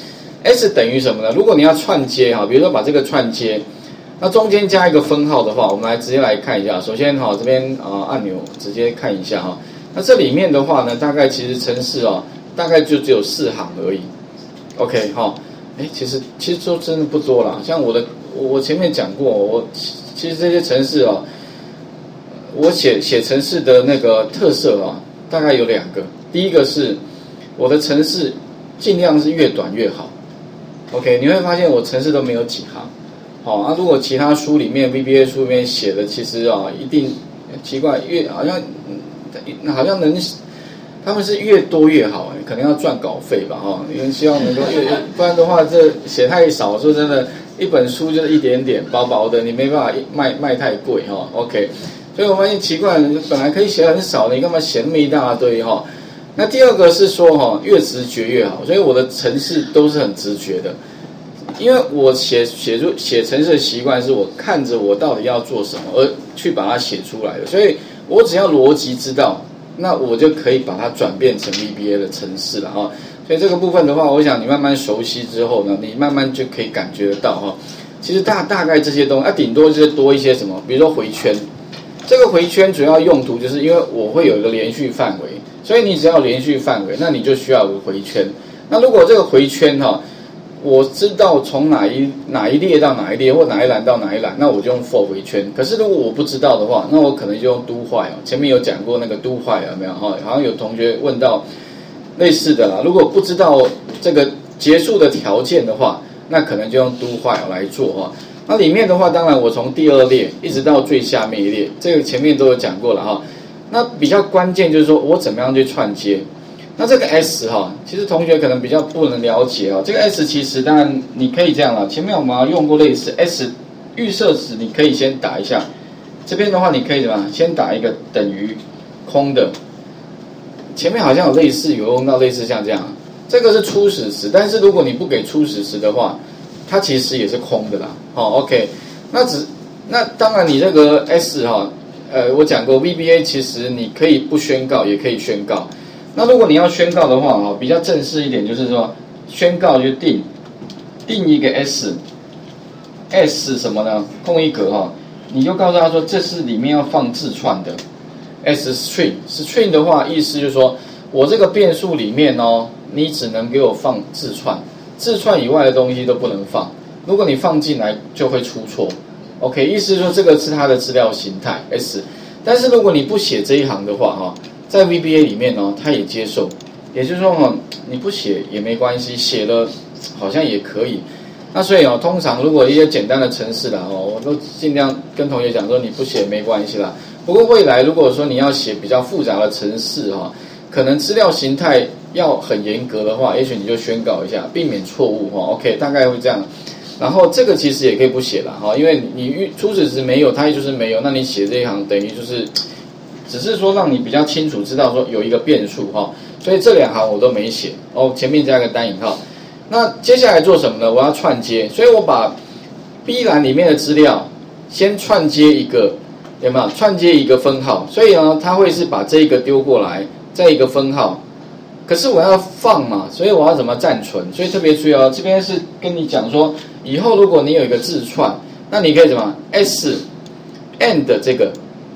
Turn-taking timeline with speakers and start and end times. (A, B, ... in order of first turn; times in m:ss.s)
0:00.4-0:03.6 A
0:04.2-0:14.1 A
0:14.8-0:21.2 A
0:22.5-0:27.0 A
0:27.6-0:30.1 A
0:30.9-0:32.9 A
0:33.4-0:40.4 A
0:41.0-0:55.8 A
0:56.4-1:00.8 A
1:01.6-1:21.4 A
1:22.1-1:30.0 A
1:30.6-1:41.4 A
1:42.2-1:56.2 A
1:56.8-2:05.7 A
2:06.2-2:09.5 A
2:10.7-2:30.3 A
2:31.1-2:32.0 A
2:33.1-2:37.8 A
2:38.4-3:16.5 A
3:17.0-3:22.5 A
3:23.3-3:32.3 A
3:33.0-3:41.2 A
3:41.9-3:50.0 A
3:50.8-3:51.6 A